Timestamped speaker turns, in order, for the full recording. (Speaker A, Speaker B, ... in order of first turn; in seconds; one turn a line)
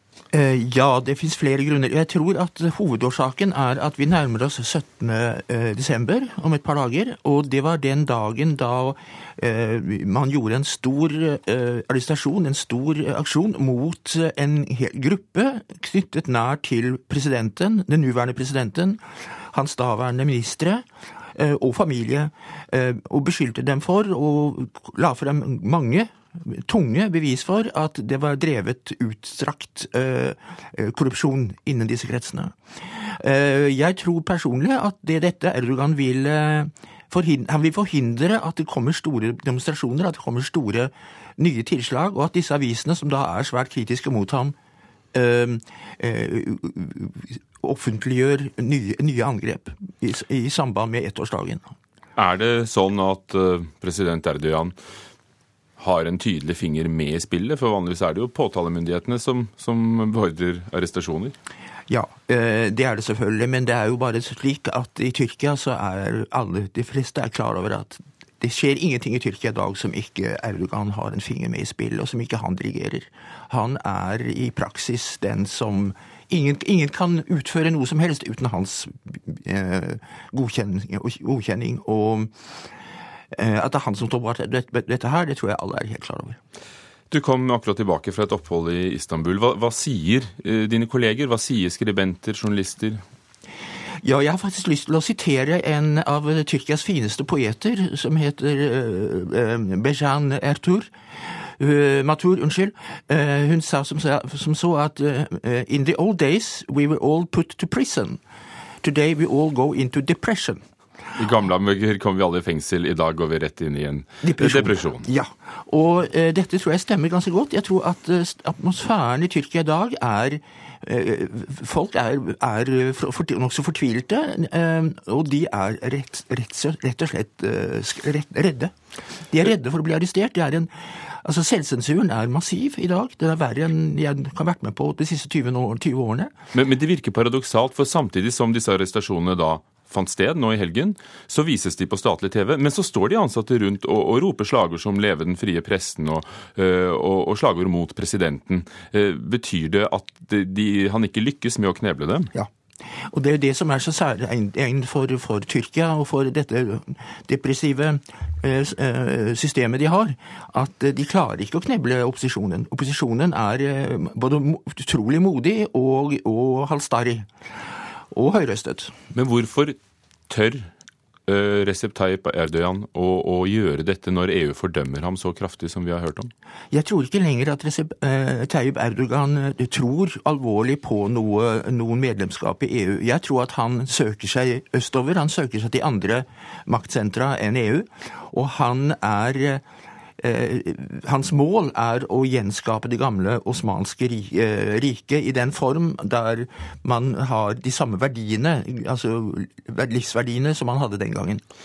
Speaker A: 0.3-44.5
Speaker A: 45.1-51.7
Speaker B: 52.1-54.7
Speaker B: 55.8-61.3
Speaker A: 61.9-82.5
Speaker A: 83.3-86.4
Speaker B: 87.1-93.0
Speaker A: 94.0-100.9
Speaker A: 101.6-108.2
Speaker A: 108.8-110.6
Speaker B: 111.2-115.0
Speaker A: 114.2-128.7
Speaker A: 129.2-136.3
Speaker B: 136.5-152.3
Speaker A: 152.3-167.3
Speaker A: 168.1-168.9
Speaker B: 169.1-169.8
Speaker B: 170.3-170.7
Speaker B: 171.3-176.3
Speaker A: 176.7-189.6
Speaker A: 190.2-201.4